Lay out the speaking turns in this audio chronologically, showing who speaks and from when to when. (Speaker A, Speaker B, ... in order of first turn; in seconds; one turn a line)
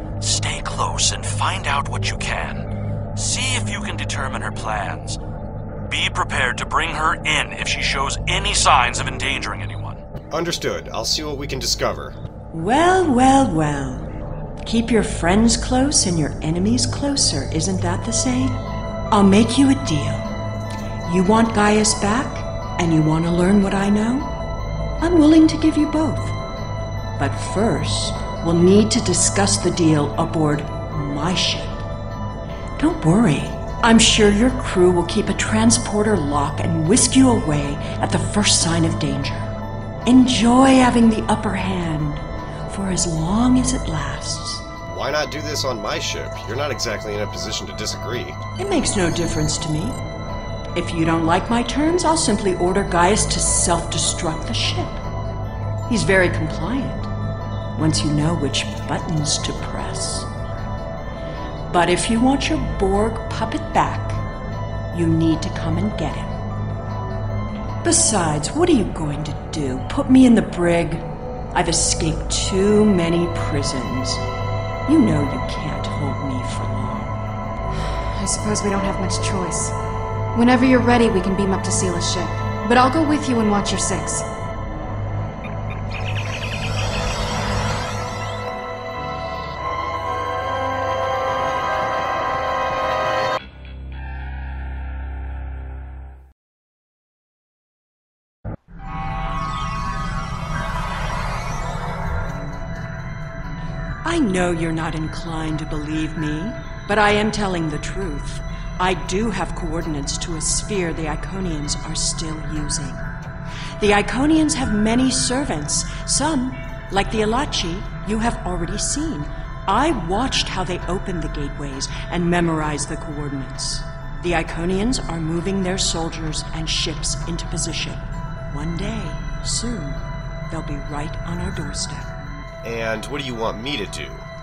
Speaker A: 0.2-5.2
Speaker A: 5.9-10.0
Speaker B: 10.3-12.2
Speaker C: 12.5-14.1
Speaker C: 14.6-18.6
Speaker C: 19.1-20.3
Speaker C: 21.1-24.4
Speaker C: 25.0-26.4
Speaker C: 27.2-31.8
Speaker C: 32.8-39.5
Speaker C: 40.1-44.7
Speaker B: 44.9-48.4
Speaker C: 48.6-50.0
Speaker C: 50.8-55.0
Speaker C: 55.9-57.1
Speaker C: 57.8-60.3
Speaker C: 61.7-64.2
Speaker C: 64.9-66.4
Speaker C: 67.8-74.2
Speaker C: 74.9-77.2
Speaker D: 78.2-79.8
Speaker D: 80.3-84.3
Speaker C: 104.0-113.1
Speaker C: 113.8-132.1
Speaker B: 132.6-134.3